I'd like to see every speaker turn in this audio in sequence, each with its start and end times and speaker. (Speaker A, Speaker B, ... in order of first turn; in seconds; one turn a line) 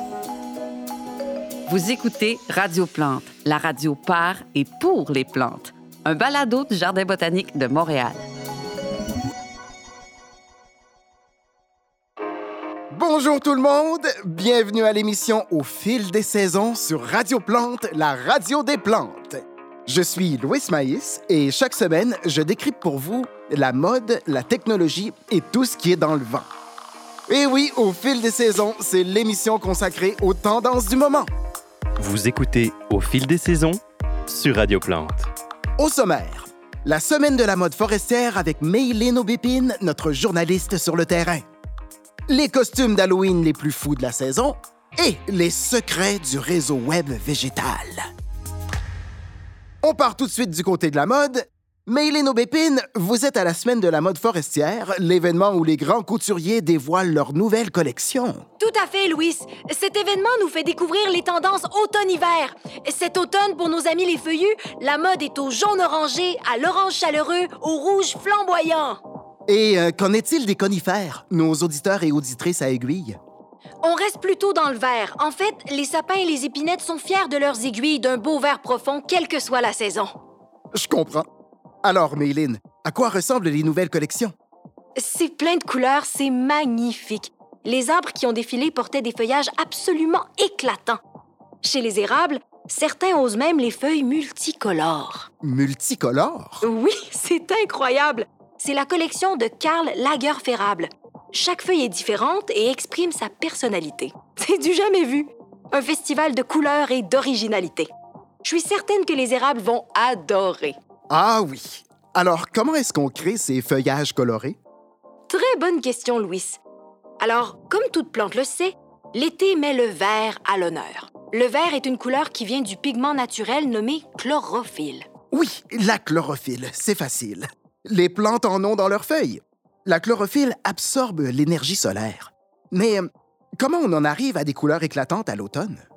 Speaker A: 1.7-8.2
Speaker B: 12.9-26.5
Speaker B: 27.3-31.3
Speaker C: 32.0-35.3
Speaker B: 35.8-41.4
Speaker B: 42.3-48.0
Speaker B: 49.8-58.4
Speaker D: 58.6-69.0
Speaker B: 69.5-73.2
Speaker D: 73.8-80.1
Speaker B: 80.7-81.3
Speaker B: 81.8-84.3
Speaker D: 85.0-91.0
Speaker D: 91.6-95.3
Speaker B: 95.4-96.6
Speaker D: 96.6-107.9
Speaker D: 108.4-110.8
Speaker B: 111.1-114.6
Speaker D: 115.3-116.6
Speaker D: 117.2-125.1
Speaker B: 125.3-133.1
Speaker B: 133.6-135.8